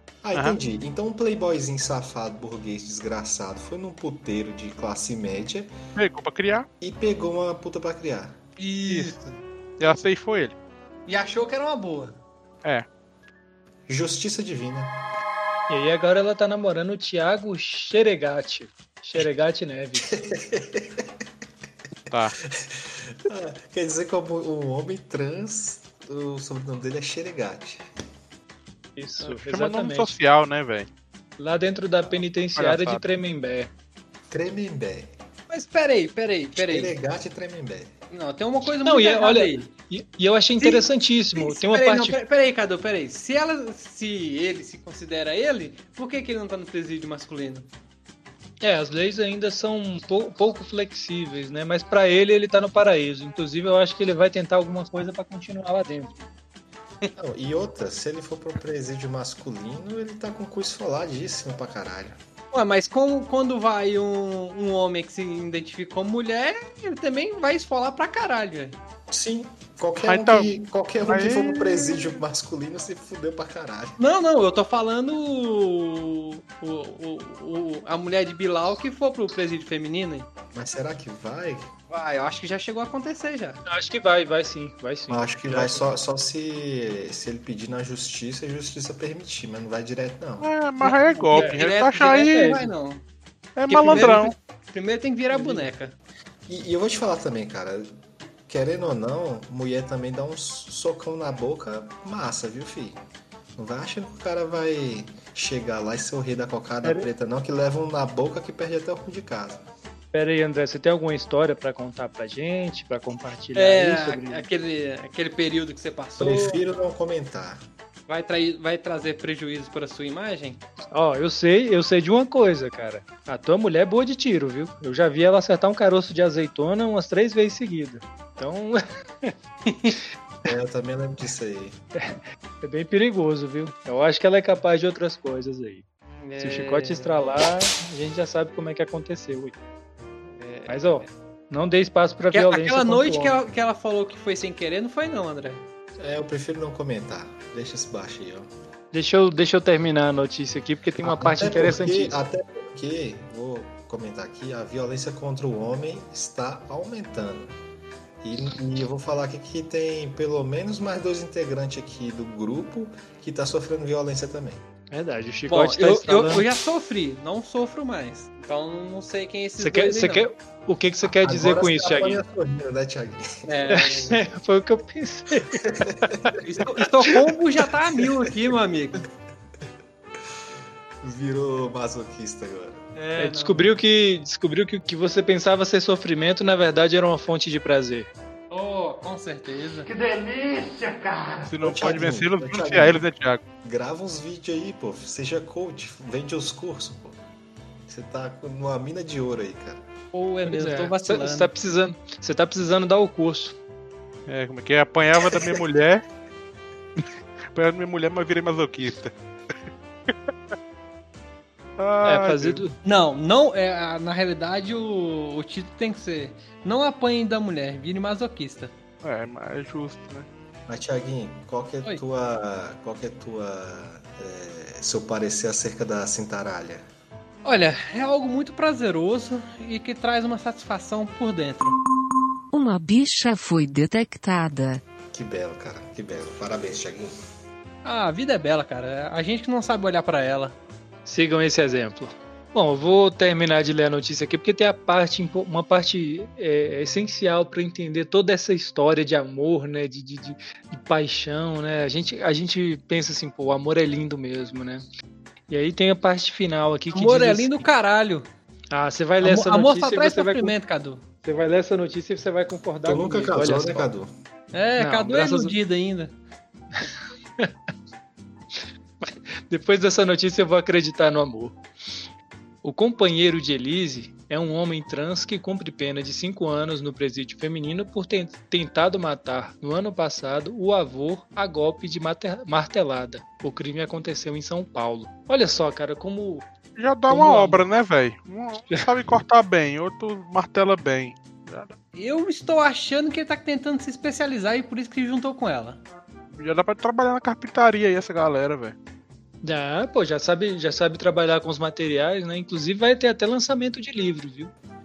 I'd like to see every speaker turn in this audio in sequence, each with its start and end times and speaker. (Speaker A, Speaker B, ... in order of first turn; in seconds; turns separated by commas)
Speaker A: 0.2-5.7, Speaker B: 6.0-6.7, Speaker A: 6.8-8.4, Speaker C: 8.6-9.4, Speaker B: 8.9-9.2, Speaker B: 9.8-10.6, Speaker C: 11.1-12.2, Speaker A: 13.9-15.0, Speaker D: 15.7-20.1, Speaker A: 20.0-21.1, Speaker B: 22.1-22.4, Speaker A: 22.5-27.9, Speaker D: 29.0-30.1, Speaker B: 29.2-30.9, Speaker D: 31.4-33.7, Speaker B: 32.6-33.0, Speaker A: 34.3-35.1, Speaker C: 35.5-37.0, Speaker A: 36.6-37.9, Speaker C: 38.1-39.6, Speaker D: 38.8-42.2, Speaker C: 40.6-47.7, Speaker D: 48.6-56.2, Speaker A: 57.2-62.2, Speaker C: 62.5-68.8, Speaker A: 69.1-74.0, Speaker B: 70.0-71.8, Speaker C: 74.0-80.3, Speaker A: 80.5-81.7, Speaker C: 81.9-83.6, Speaker D: 83.7-85.9, Speaker A: 85.1-90.5, Speaker B: 90.4-92.6, Speaker C: 90.8-93.0, Speaker D: 91.3-92.7, Speaker B: 93.6-94.3, Speaker C: 93.7-96.0, Speaker D: 95.3-95.7, Speaker A: 96.5-97.9, Speaker A: 98.5-103.0, Speaker A: 103.6-109.6, Speaker D: 110.1-114.5, Speaker C: 113.5-116.6, Speaker A: 116.2-117.6, Speaker C: 118.1-120.6, Speaker D: 120.9-129.3, Speaker C: 129.7-130.0, Speaker A: 130.4-131.8, Speaker D: 132.0-135.8, Speaker C: 136.2-137.3, Speaker D: 136.4-139.6, Speaker C: 140.4-140.7, Speaker D: 140.7-143.4, Speaker C: 142.3-145.7, Speaker A: 146.0-148.5, Speaker D: 148.9-152.2, Speaker A: 151.0-157.6, Speaker A: 158.2-164.6, Speaker D: 164.9-166.5, Speaker C: 165.5-170.3, Speaker D: 169.6-172.2, Speaker A: 171.1-173.7, Speaker C: 173.5-174.2, Speaker D: 173.7-175.7, Speaker A: 175.7-176.4, Speaker C: 176.4-179.1, Speaker A: 181.0-182.8, Speaker C: 183.0-183.7, Speaker D: 183.2-188.1, Speaker C: 188.5-189.9, Speaker B: 191.5-193.4, Speaker A: 191.6-193.0, Speaker A: 193.6-197.2, Speaker A: 197.9-199.8, Speaker C: 200.1-201.5, Speaker D: 200.5-203.6, Speaker B: 204.3-206.0, Speaker B: 207.0-209.1, Speaker B: 211.8-212.6, Speaker D: 212.0-212.8, Speaker C: 212.8-218.7, Speaker B: 219.0-220.3, Speaker A: 220.7-226.8, Speaker C: 227.4-231.8, Speaker E: 232.5-234.8, Speaker A: 235.1-237.1, Speaker C: 237.8-240.6, Speaker D: 241.1-254.8, Speaker D: 255.5-257.6, Speaker C: 256.9-258.3, Speaker D: 258.7-260.5, Speaker C: 259.2-261.0, Speaker D: 261.2-263.9, Speaker A: 262.9-264.1, Speaker C: 264.5-266.1, Speaker D: 264.8-265.6, Speaker D: 269.0-271.6, Speaker D: 272.6-286.5, Speaker B: 286.8-291.8, Speaker D: 287.1-287.6, Speaker C: 291.9-295.8, Speaker B: 296.4-298.8, Speaker D: 299.4-304.5